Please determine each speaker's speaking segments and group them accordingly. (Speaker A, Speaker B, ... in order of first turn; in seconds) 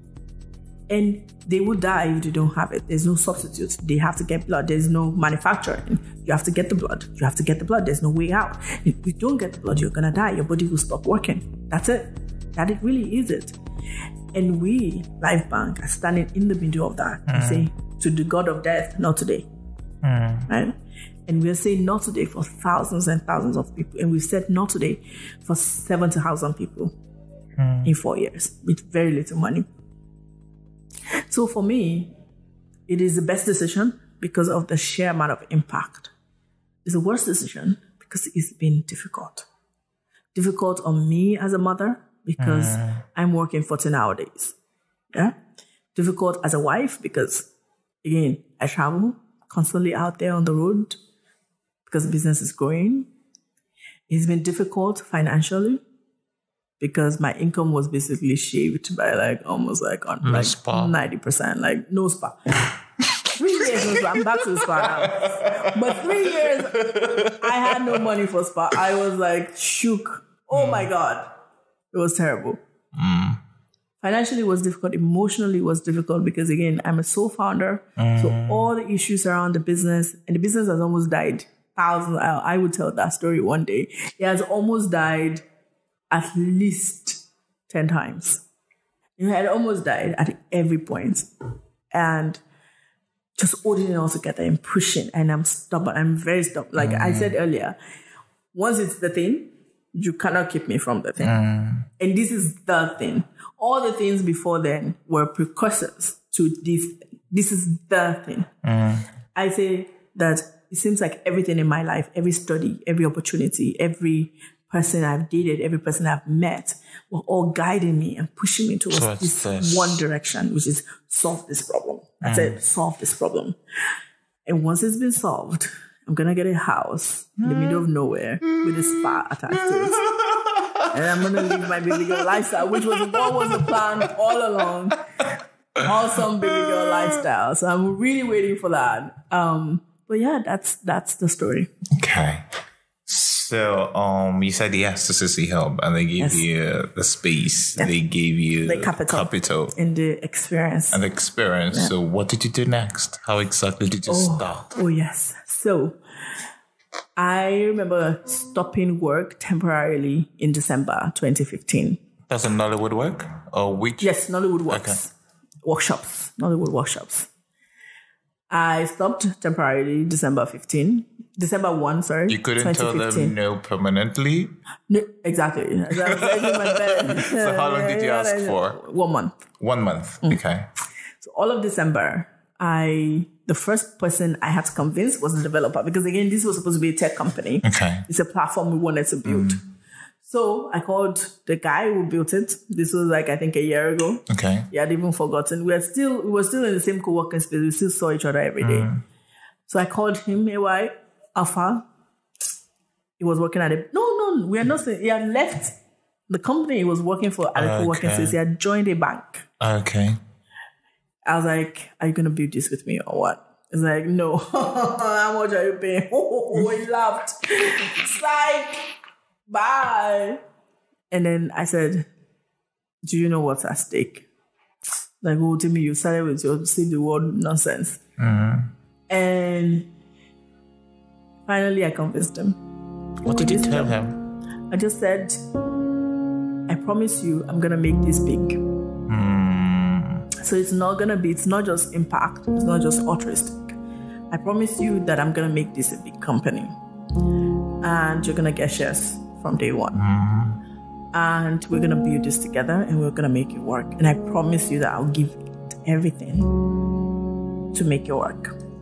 Speaker A: 0.9-13.6, 14.3-19.5, 20.5-20.7, 21.3-26.9, 27.8-29.7, 31.3-32.1, 32.9-36.1, 36.9-39.5, 40.3-44.5, 46.0-47.5, 48.0-51.0, 51.9-53.1, 54.1-55.8, 56.8-62.4, 63.4-71.3, 71.9-72.6, 74.0-85.4, 86.1-88.4, 89.2-91.3, 91.9-92.4, 93.4-97.8, 98.5-101.4, 102.0-108.5, 109.3-123.6, 124.5-130.1, 130.9-135.0, 135.8-141.7, 146.2-146.5, 148.7-151.0, 154.1-156.0, 157.2-162.0, 164.0-165.1, 165.6-167.3, 168.5-173.4, 174.9-179.4, 181.2-189.6, 190.2-198.9, 199.7-201.9, 203.2-205.8, 206.3-209.5, 211.3-218.9, 219.5-220.4, 221.1-222.1, 223.1-224.3, 225.2-228.0, 229.1-229.9, 231.5-232.6, 233.3-234.0, 234.7-235.4, 236.7-238.6, 240.4-243.7, 244.3-246.7, 247.8-250.0, 251.1-256.5, 257.7-258.6
Speaker B: 17.3-17.7, 20.0-20.5, 27.6-27.9, 42.4-43.0, 60.2-61.0, 63.6-68.0, 70.5-70.9, 72.9-73.4, 78.0-78.7, 96.8-97.3, 101.2-101.9, 108.6-109.0, 118.9-120.0, 122.2-122.6, 127.4-127.8, 129.7-131.7, 133.1-133.8, 136.5-136.8, 141.9-142.4, 143.1-149.8, 150.9-154.7, 162.3-164.1, 164.7-165.0, 172.3-174.5, 176.0-178.8, 179.6-180.7, 187.6-188.1, 189.2-189.6, 194.3-194.7, 198.6-199.0, 207.6-208.4, 209.6-210.2, 228.2-228.7, 233.2-234.2, 239.1-240.3, 249.9-250.6